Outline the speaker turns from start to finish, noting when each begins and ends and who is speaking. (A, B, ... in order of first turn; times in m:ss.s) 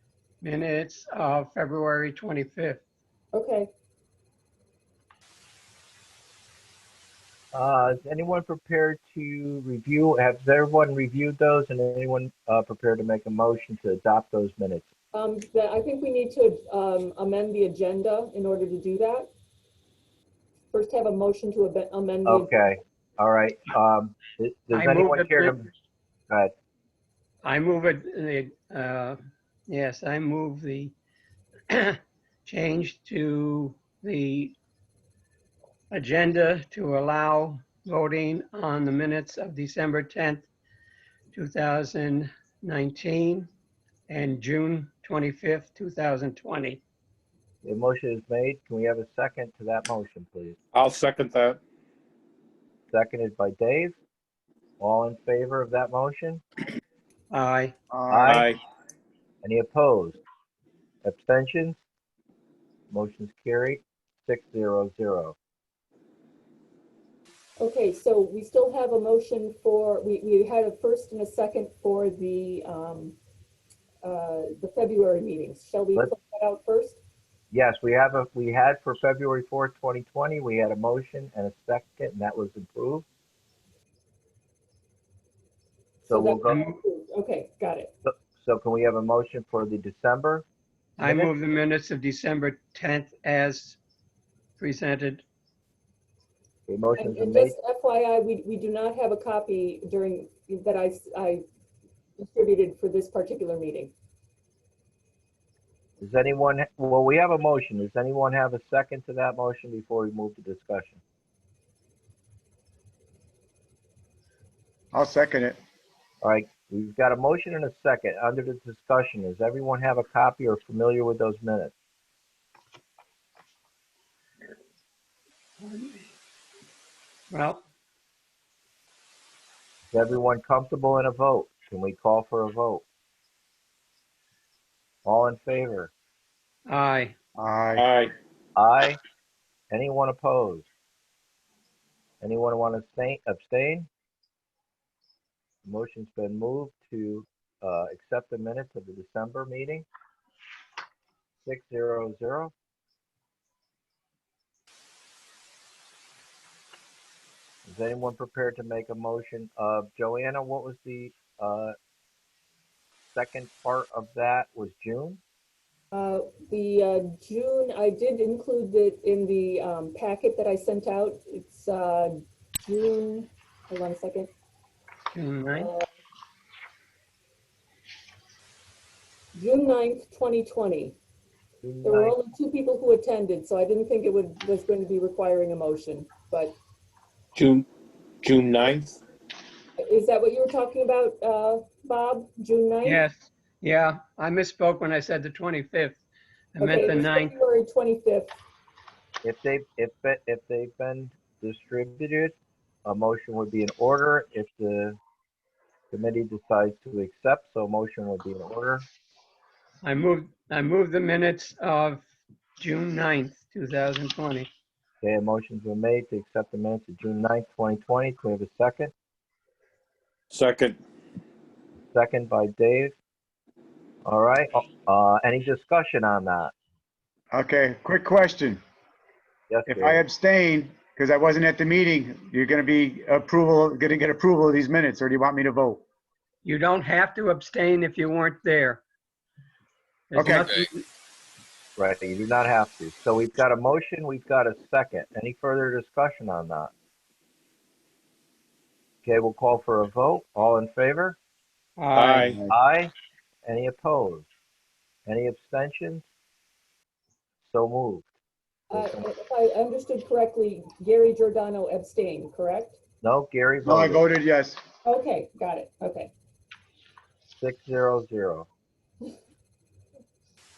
0:00.4-0:02.8 A
0:03.3-0:03.7 B
0:07.5-0:14.9 C
0:15.1-0:19.3 B
0:20.7-0:22.6 B
0:22.2-0:25.7 C
0:24.7-0:25.6 A
0:27.4-0:29.2 A
0:29.7-0:30.9 A
0:31.7-0:34.6 A
0:35.9-0:40.5 A
0:41.3-0:43.5 A
0:44.1-0:46.8 A
0:47.6-0:50.6 C
0:50.7-0:51.6 D
0:52.9-0:54.0 C
0:54.8-0:56.4 C
0:57.3-0:57.7 A
0:57.9-0:58.5 E
0:58.1-0:58.5 C
0:58.2-0:58.6 D
0:59.4-1:00.2 C
1:01.0-1:01.8 C
1:02.9-1:05.3 C
1:07.6-1:13.2 B
1:14.0-1:17.0 B
1:17.5-1:23.0 C
1:26.0-1:27.9 B
1:26.1-1:26.6 C
1:26.5-1:26.8 A
1:28.0-1:30.4 C
1:31.0-1:33.8 A
1:31.0-1:31.3 C
1:34.6-1:35.2 A
1:36.7-1:37.5 C
1:37.0-1:41.4 B
1:42.2-1:43.9 B
1:46.0-1:51.0 C
1:54.9-1:55.6 E
1:56.2-2:01.7 C
2:05.6-2:06.0 A
2:07.3-2:07.6 A
2:09.9-2:12.8 C
2:15.0-2:15.9 C
2:16.7-2:17.1 A
2:17.4-2:17.8 E
2:17.7-2:18.1 D
2:18.6-2:19.0 C
2:19.7-2:20.7 C
2:22.2-2:23.9 C
2:25.6-2:29.8 C
2:31.4-2:32.5 C
2:37.6-2:41.7 C
2:43.1-2:45.2 C
2:45.9-2:54.3 B
2:55.1-2:55.7 A
2:55.5-2:55.8 B
2:59.3-3:01.0 B
3:01.6-3:02.2 C
3:01.8-3:06.6 B
3:07.3-3:07.7 D
3:08.2-3:09.0 D
3:09.8-3:13.0 B
3:12.8-3:16.0 A
3:16.6-3:17.3 A
3:16.6-3:18.4 B
3:19.2-3:25.0 C
3:25.9-3:28.8 C
3:29.8-3:32.0 A
3:32.6-3:34.5 A
3:35.0-3:38.9 C
3:40.3-3:40.8 D
3:41.9-3:42.9 C
3:44.0-3:46.5 C
3:47.3-3:48.6 E
3:49.5-3:50.0 C
3:49.7-3:55.8 E
3:56.4-3:58.8 A
4:00.1-4:00.8 A
4:00.1-4:00.5 E
4:01.8-4:06.7 C
4:09.0-4:11.2 C
4:11.8-4:12.4 A
4:11.9-4:12.4 D
4:12.5-4:12.9 C
4:13.4-4:14.2 C
4:15.1-4:16.0 C
4:17.4-4:18.1 C
4:18.7-4:22.8 B
4:18.7-4:19.1 C
4:23.0-4:24.1 C
4:23.6-4:24.6 E
4:24.8-4:26.1 B
4:27.4-4:28.5 C